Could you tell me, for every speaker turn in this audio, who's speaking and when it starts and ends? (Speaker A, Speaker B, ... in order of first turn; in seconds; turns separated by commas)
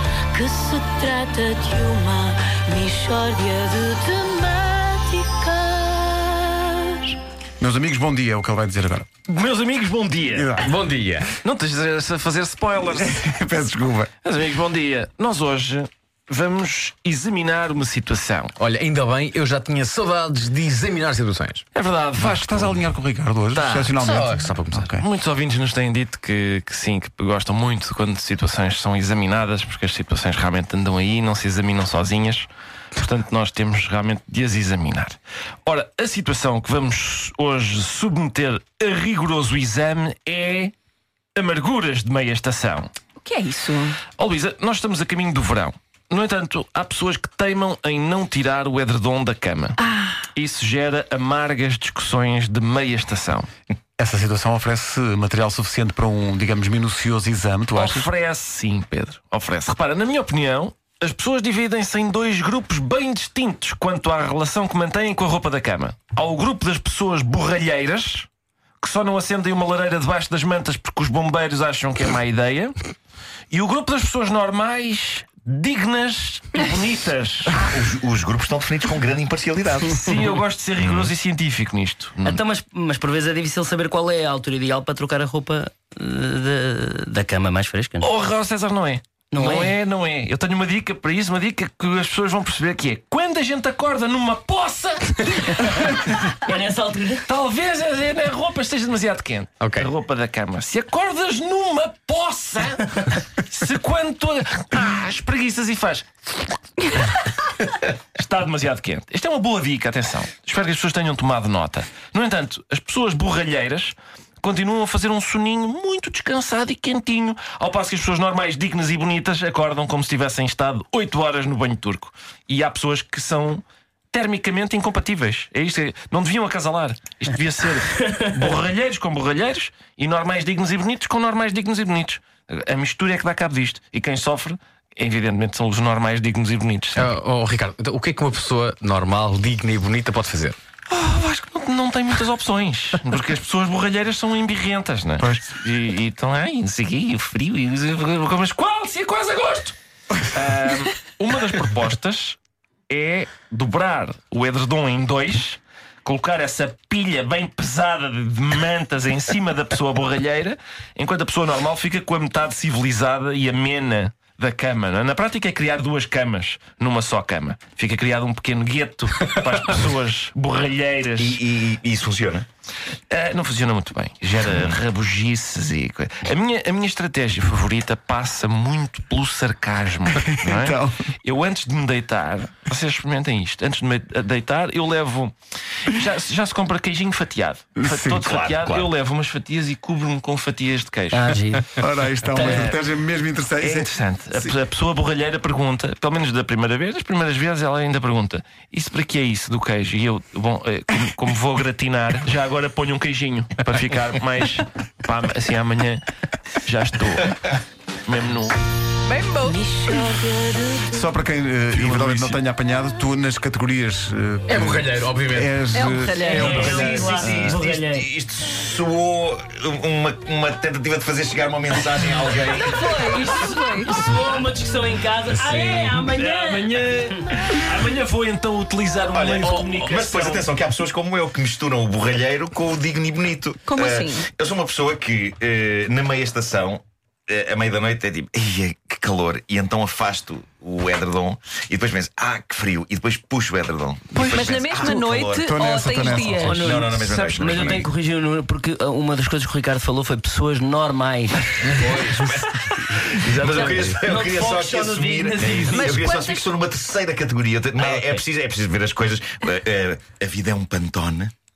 Speaker A: 0.3-7.2, Speaker B: 7.6-9.1, Speaker C: 9.3-10.7, Speaker B: 10.3-10.7, Speaker D: 10.6-11.3, Speaker C: 11.4-13.2, Speaker B: 12.9-14.1, Speaker C: 14.2-18.5, Speaker D: 18.6-21.6, Speaker C: 21.7-22.9, Speaker B: 22.2-25.0, Speaker D: 23.5-24.9, Speaker C: 25.0-40.7, Speaker C: 41.3-42.9, Speaker E: 43.2-44.0, Speaker C: 44.1-49.8, Speaker C: 50.3-53.5, Speaker B: 54.0-58.1, Speaker C: 57.7-68.3, Speaker C: 68.8-72.9, Speaker C: 73.5-77.6, Speaker F: 77.5-80.0, Speaker C: 79.9-82.4, Speaker F: 80.8-81.1, Speaker G: 82.2-88.1, Speaker C: 88.0-96.5, Speaker G: 89.3-89.7, Speaker G: 96.5-97.2, Speaker C: 97.2-106.3, Speaker D: 99.6-99.9, Speaker C: 106.8-137.2, Speaker D: 136.9-140.6, Speaker C: 140.9-149.7, Speaker C: 150.2-171.4, Speaker F: 171.2-172.4, Speaker C: 173.1-191.4, Speaker F: 174.4-174.7, Speaker B: 180.2-181.0, Speaker B: 187.8-188.2, Speaker F: 188.2-188.9, Speaker G: 191.1-191.6, Speaker B: 191.8-194.5, Speaker C: 192.2-192.8, Speaker C: 193.6-206.0, Speaker C: 206.6-208.6, Speaker E: 209.1-209.5, Speaker A: 209.4-211.1, Speaker B: 210.9-216.8, Speaker C: 211.7-212.4, Speaker D: 214.5-215.6, Speaker E: 215.7-216.9, Speaker G: 216.2-218.1, Speaker F: 216.3-223.4, Speaker C: 216.8-217.6, Speaker E: 222.6-224.1, Speaker G: 223.9-226.8, Speaker D: 225.3-225.9, Speaker C: 225.4-230.5, Speaker F: 229.1-245.5, Speaker D: 229.4-230.0, Speaker E: 233.7-234.3, Speaker E: 244.1-246.7, Speaker B: 245.4-246.8, Speaker G: 246.4-251.9, Speaker F: 246.5-247.9, Speaker D: 251.6-252.5, Speaker F: 251.8-261.3, Speaker G: 253.4-256.0, Speaker C: 253.5-253.8, Speaker C: 255.5-255.8, Speaker E: 255.7-256.5